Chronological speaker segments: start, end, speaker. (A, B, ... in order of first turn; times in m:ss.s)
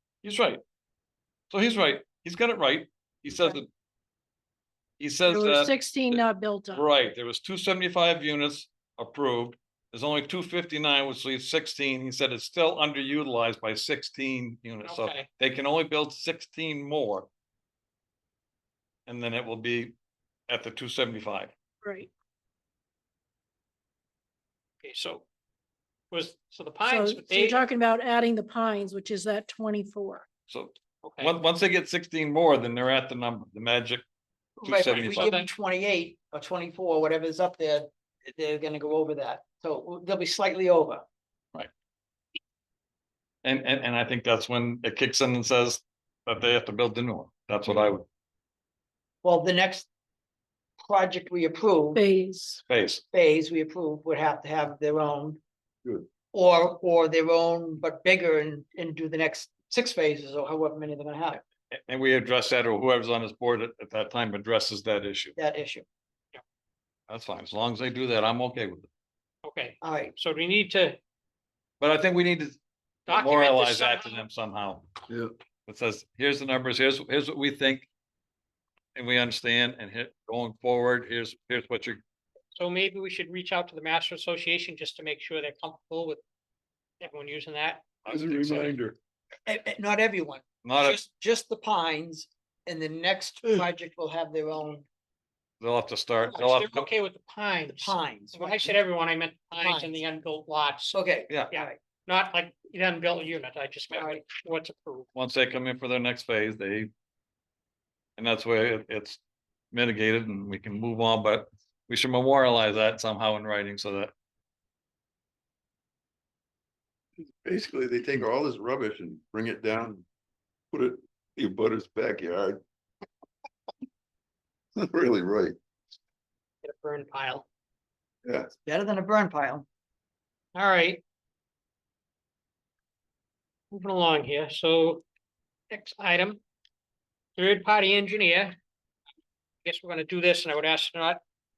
0:00.2-0:00.6 A
0:01.5-0:03.7 A
0:05.0-0:17.3 A
0:05.3-0:06.9 B
0:14.8-0:15.3 C
0:19.1-0:19.9 A
0:20.5-0:21.5 A
0:21.8-0:22.1 B
0:24.8-0:25.2 C
0:26.1-0:27.6 C
0:26.8-0:30.2 B
0:30.5-0:34.0 A
0:31.0-0:31.3 C
0:34.6-0:41.0 D
0:34.6-0:35.3 A
0:35.1-0:35.5 C
0:43.4-0:48.0 A
0:49.2-0:49.9 D
0:50.8-0:52.0 D
0:52.0-0:52.6 B
0:52.7-0:53.0 A
0:53.1-0:55.4 D
0:56.3-1:01.4 D
1:01.7-1:05.4 A
1:05.4-1:05.8 D
1:07.1-1:08.9 A
1:09.4-1:11.0 C
1:09.8-1:10.1 D
1:11.8-1:14.9 A
1:13.1-1:14.2 C
1:15.7-1:17.9 A
1:19.0-1:22.0 A
1:22.6-1:26.2 C
1:27.0-1:28.0 C
1:28.1-1:28.8 A
1:28.1-1:29.0 E
1:29.5-1:34.9 D
1:30.6-1:31.0 A
1:35.6-1:36.9 A
1:36.2-1:40.9 C
1:37.7-1:38.8 D
1:39.5-1:40.0 D
1:40.8-1:41.8 D
1:41.4-1:45.1 C
1:43.9-1:44.2 D
1:45.2-1:46.9 A
1:48.2-1:49.2 A
1:49.7-1:54.1 A
1:57.2-2:00.0 E
2:00.7-2:02.6 E
2:04.8-2:05.6 E
2:06.6-2:07.4 C
2:08.2-2:08.5 E
2:08.6-2:09.7 D
2:10.6-2:11.0 C
2:13.7-2:15.0 C
2:15.7-2:16.4 C
2:17.4-2:18.6 C
2:19.6-2:21.2 C